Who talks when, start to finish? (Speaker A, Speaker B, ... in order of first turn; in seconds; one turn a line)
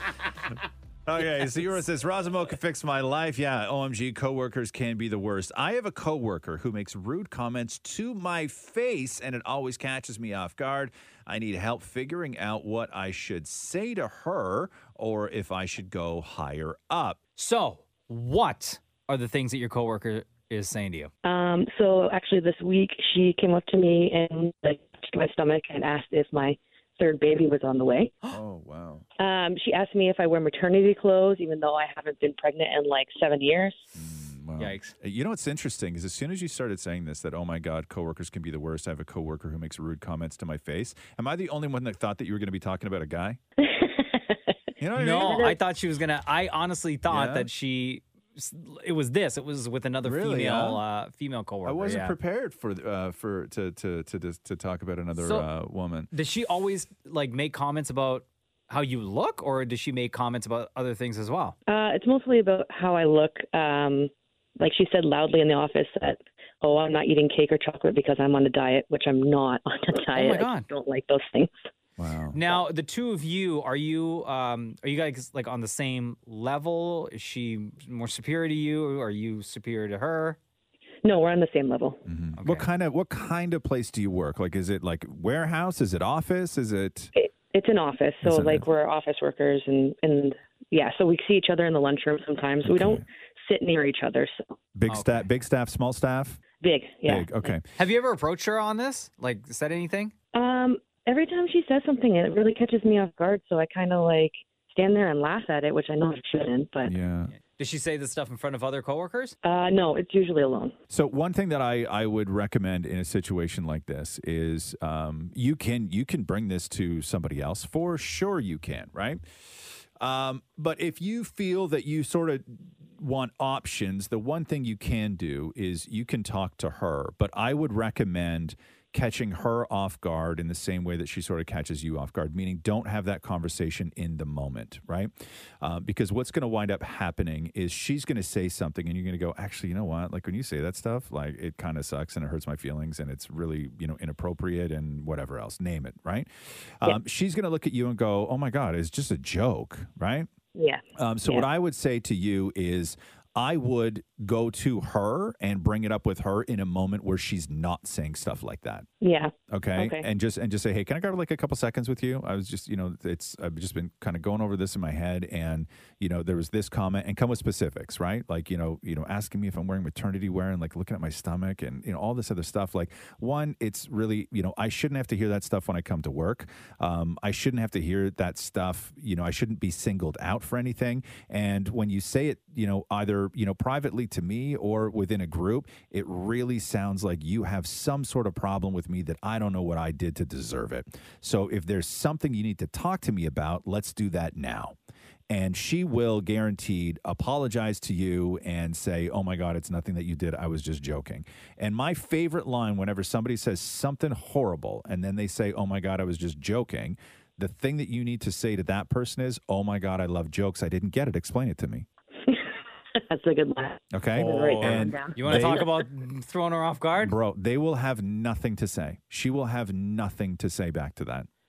Speaker A: 1.1-17.2
Speaker B: 1.2-1.8
Speaker B: 17.4-21.1
Speaker C: 21.2-28.1
Speaker A: 28.3-29.0
Speaker C: 29.2-33.9
Speaker A: 33.9-43.4
Speaker B: 34.6-34.9
Speaker C: 43.6-44.5
Speaker A: 44.8-45.5
Speaker B: 45.0-52.1
Speaker C: 45.2-45.5
Speaker A: 47.1-47.5
Speaker A: 50.0-50.8
Speaker A: 51.6-56.1
Speaker B: 55.2-55.5
Speaker B: 56.1-61.5
Speaker C: 61.7-71.7
Speaker B: 70.2-70.7
Speaker A: 72.0-72.4
Speaker B: 72.3-80.4
Speaker C: 81.0-82.0
Speaker A: 82.0-87.1
Speaker B: 82.4-82.7
Speaker C: 87.1-94.5
Speaker A: 88.2-88.7
Speaker A: 92.6-93.0
Speaker A: 94.7-96.4
Speaker B: 94.9-95.2
Speaker C: 96.6-97.3
Speaker A: 97.0-97.6
Speaker B: 97.7-100.1
Speaker C: 100.3-106.9
Speaker A: 106.8-107.3
Speaker B: 107.3-109.3
Speaker C: 109.4-110.7
Speaker A: 110.9-119.2
Speaker A: 120.0-146.3
Speaker A: 146.8-150.3
Speaker C: 150.5-151.4
Speaker A: 151.0-158.9
Speaker C: 159.0-160.1
Speaker A: 159.5-194.8
Speaker A: 195.3-211.8
Speaker C: 213.1-215.6
Speaker A: 213.9-215.7
Speaker B: 214.2-217.1
Speaker A: 217.0-221.3